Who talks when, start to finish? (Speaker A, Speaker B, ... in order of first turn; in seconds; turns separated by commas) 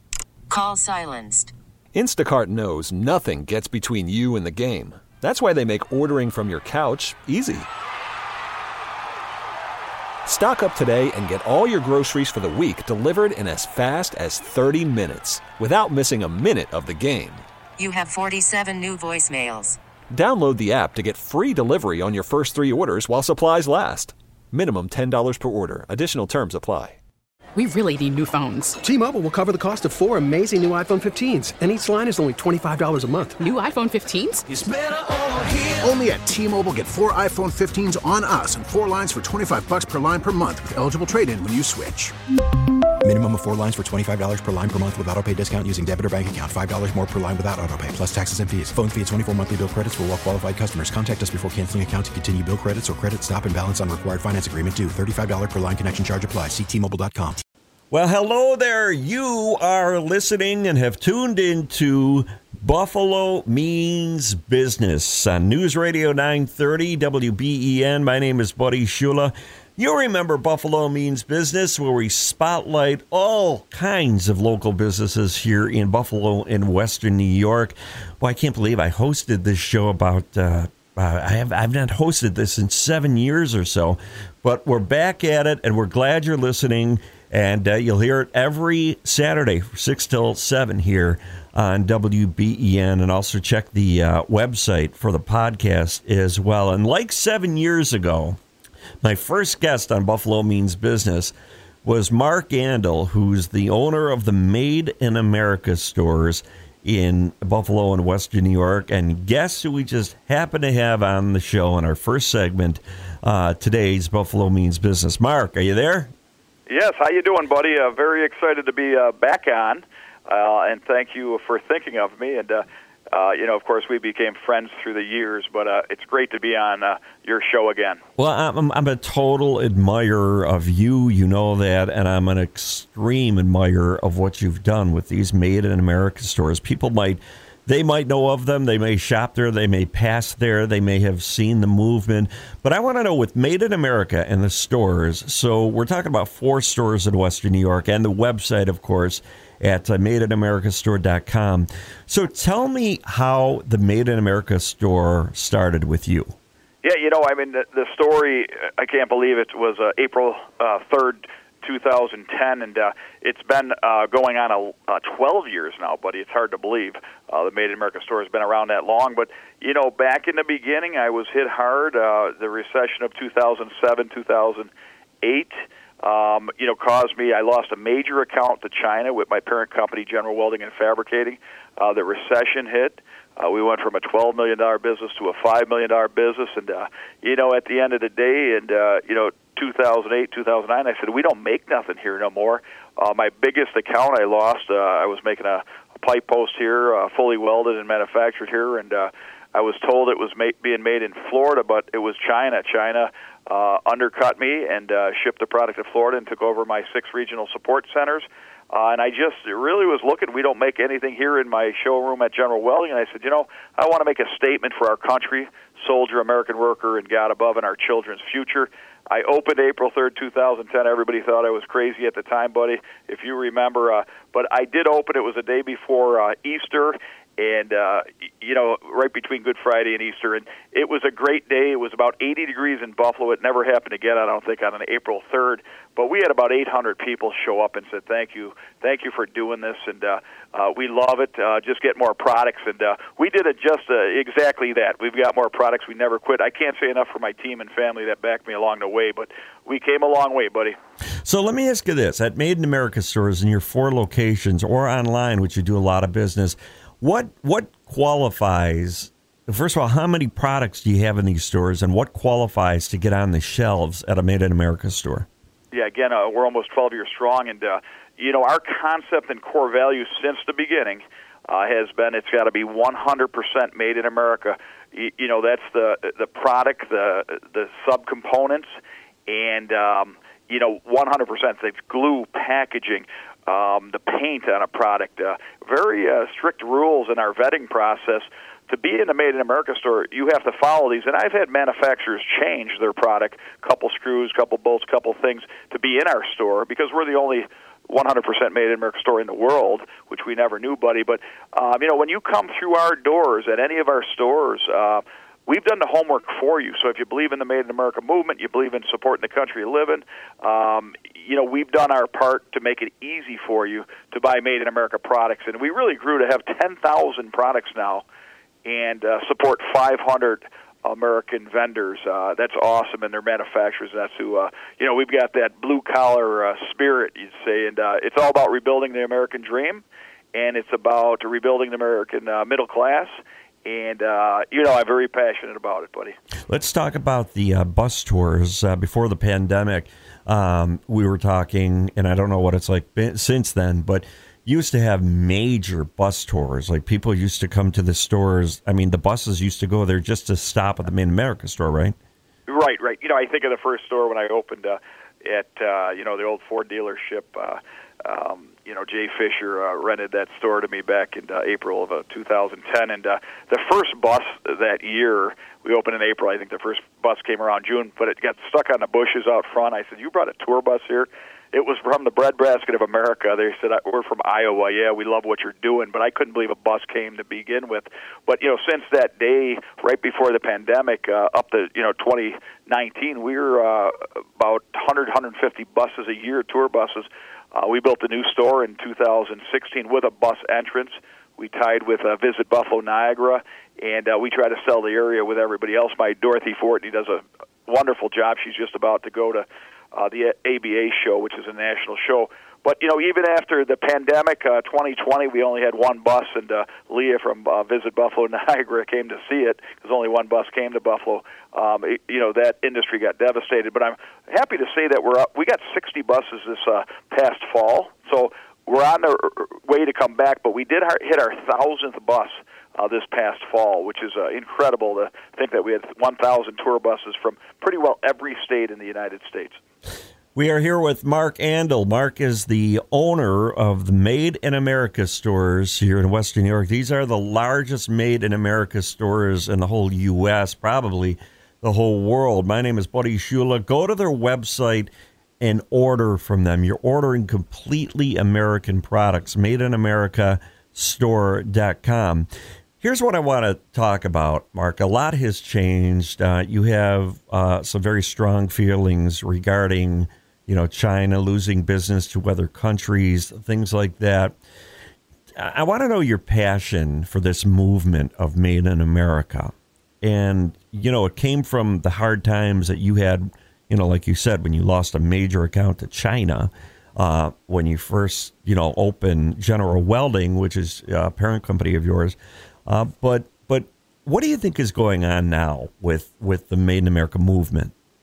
Speaker A: 0.5-1.5, Speaker B: 1.9-7.7, Speaker B: 10.2-17.4, Speaker A: 17.8-19.8, Speaker B: 20.1-27.0, Speaker C: 27.6-28.8, Speaker D: 28.8-33.5, Speaker C: 33.4-34.4, Speaker E: 34.5-42.1, Speaker F: 43.0-57.4, Speaker G: 57.9-98.4, Speaker G: 99.0-116.1, Speaker H: 116.7-128.0, Speaker G: 128.2-156.3, Speaker H: 156.8-174.7, Speaker H: 175.2-250.8, Speaker G: 251.2-265.3, Speaker H: 265.7-278.7, Speaker H: 279.3-318.0, Speaker H: 318.6-333.1, Speaker H: 333.6-336.1, Speaker G: 336.5-351.9, Speaker H: 352.4-429.6, Speaker G: 430.3-452.3, Speaker G: 452.8-464.4, Speaker G: 465.4-482.1, Speaker G: 482.7-487.7